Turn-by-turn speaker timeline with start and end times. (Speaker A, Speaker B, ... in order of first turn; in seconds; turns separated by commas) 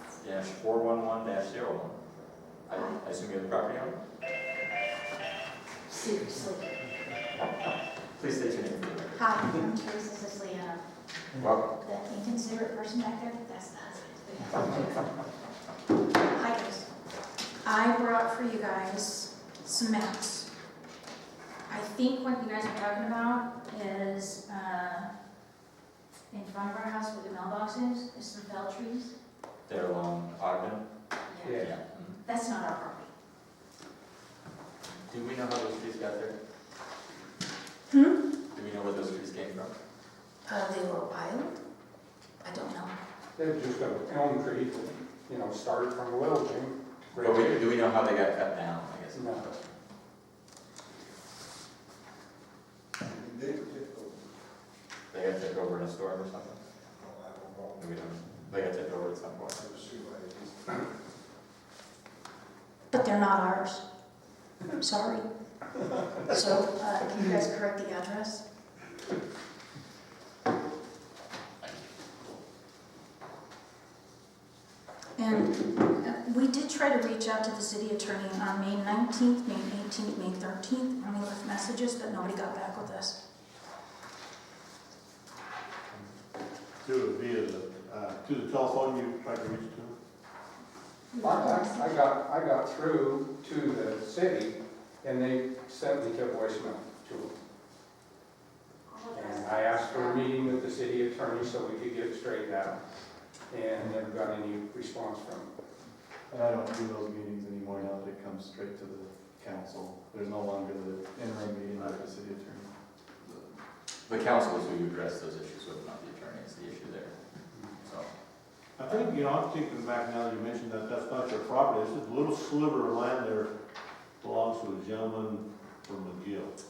Speaker A: 0.2-2.0, Speaker A: 2.7-4.0, Speaker B: 2.7-3.0, Speaker B: 5.9-6.8, Speaker A: 8.2-9.3, Speaker B: 9.2-10.8, Speaker A: 11.4-11.7, Speaker B: 11.8-15.0, Speaker B: 16.3-16.9, Speaker B: 17.6-20.5, Speaker B: 21.7-25.1, Speaker B: 26.3-29.1, Speaker A: 29.7-30.9, Speaker B: 31.3-31.7, Speaker A: 31.6-32.2, Speaker B: 32.2-33.1, Speaker A: 35.1-36.4, Speaker B: 37.9-38.2, Speaker A: 38.5-39.7, Speaker B: 40.5-41.5, Speaker B: 42.4-42.9, Speaker C: 43.4-46.7, Speaker A: 47.1-49.7, Speaker D: 53.1-54.1, Speaker A: 55.1-56.6, Speaker D: 57.2-57.6, Speaker A: 57.8-59.7, Speaker D: 59.8-60.5, Speaker B: 62.9-63.8, Speaker B: 64.8-65.2, Speaker B: 66.2-68.4, Speaker B: 75.2-83.2, Speaker E: 86.8-89.9, Speaker B: 91.1-92.0, Speaker C: 92.2-97.3, Speaker B: 98.9-100.3, Speaker C: 100.5-102.8, Speaker C: 103.5-105.5, Speaker F: 106.3-112.7, Speaker A: 114.1-117.1, Speaker A: 117.8-118.1, Speaker E: 118.8-123.5, Speaker A: 118.8-119.2, Speaker E: 124.2-126.5